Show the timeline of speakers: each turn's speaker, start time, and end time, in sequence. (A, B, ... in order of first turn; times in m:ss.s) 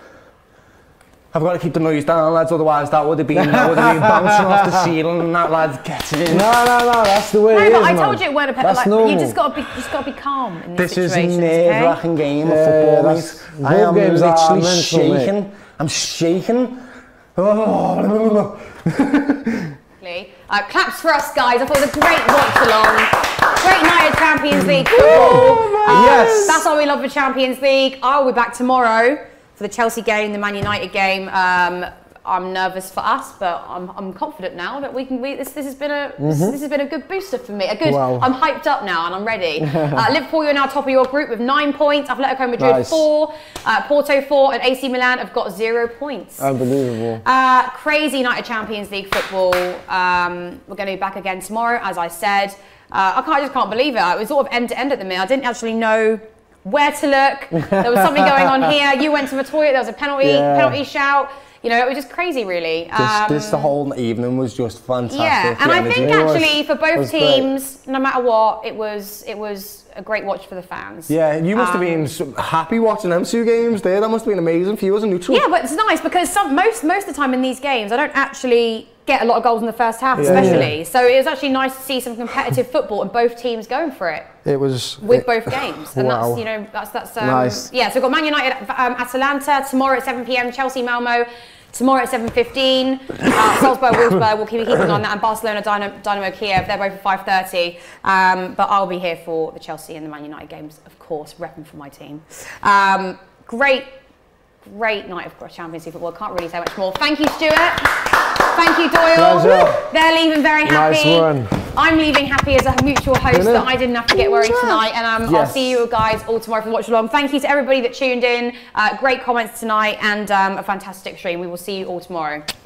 0:01.3-0:06.5 A
0:03.3-0:04.9 B
0:06.3-0:09.4 B
0:07.5-0:12.0 C
0:10.8-0:16.8 A
0:12.4-0:15.3 B
0:17.4-0:19.7 A
0:20.0-0:46.5 C
0:24.6-0:26.6 B
0:25.0-0:26.6 A
0:36.2-0:36.6 B
0:37.8-0:38.3 B
0:39.7-0:40.0 B
0:42.6-0:43.1 B
0:46.4-0:47.2 B
0:47.2-1:03.7 C
0:57.6-0:58.7 B
1:00.2-1:00.8 B
1:03.0-1:06.1 A
1:05.1-1:12.1 C
1:06.0-1:07.5 B
1:11.1-1:15.4 A
1:15.3-1:24.3 C
1:20.1-1:20.7 A
1:20.2-1:20.7 B
1:24.4-1:26.4 A
1:25.0-1:43.9 C
1:27.2-1:27.6 B
1:44.6-2:02.4 C
1:49.1-1:49.8 B
1:50.6-1:51.5 B
1:53.3-1:53.7 B
1:54.2-1:54.8 A
1:55.2-1:55.8 B